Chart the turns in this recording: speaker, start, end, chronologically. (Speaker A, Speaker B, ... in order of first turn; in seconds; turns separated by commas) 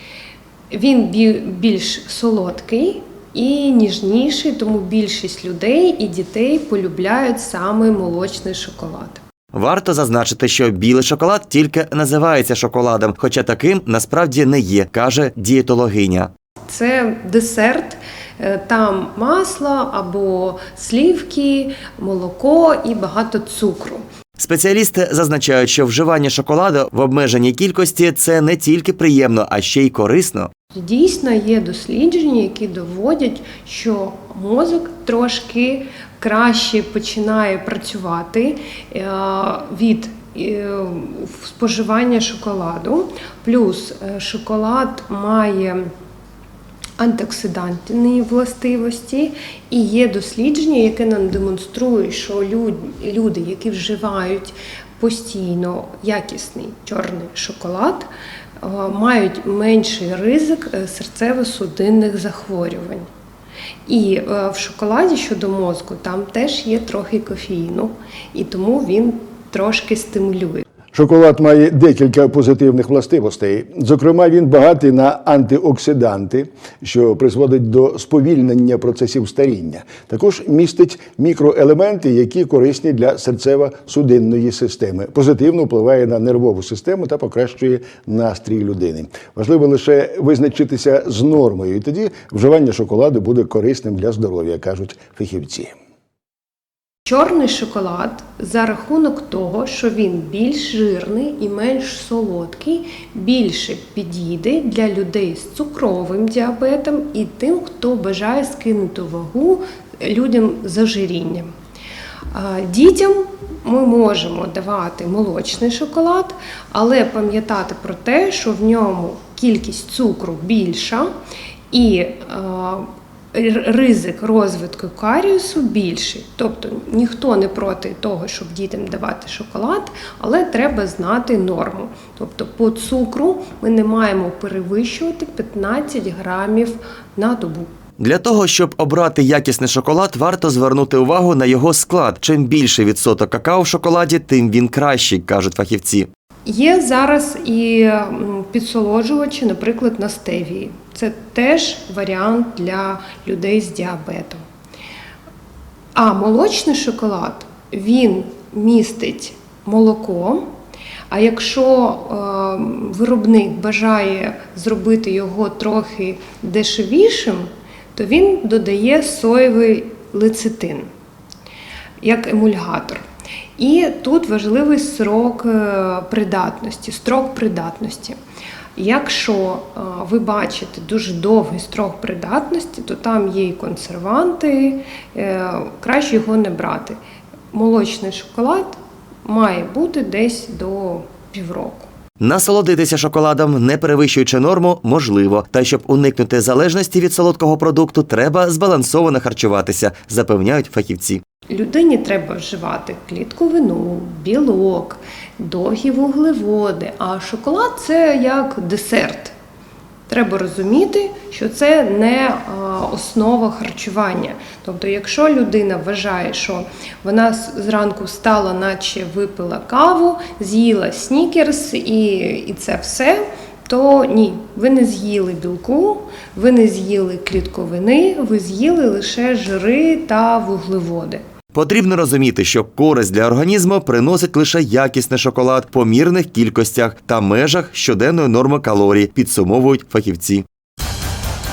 Speaker A: 0.7-9.2, Speaker B: 9.5-16.3, Speaker A: 16.6-24.1, Speaker B: 24.4-30.5, Speaker A: 30.7-45.9, Speaker A: 47.0-58.1, Speaker A: 58.6-63.1, Speaker A: 63.9-70.6, Speaker C: 70.9-95.7, Speaker A: 97.1-111.5, Speaker A: 112.3-121.1, Speaker A: 121.7-137.7, Speaker B: 138.0-146.1, Speaker A: 146.4-154.4, Speaker A: 155.9-160.5, Speaker A: 161.1-170.9, Speaker A: 172.0-173.0, Speaker A: 173.6-178.2, Speaker A: 178.8-187.0, Speaker A: 187.5-191.9, Speaker B: 192.2-201.2, Speaker A: 201.5-209.4, Speaker A: 210.1-231.3, Speaker B: 231.5-240.4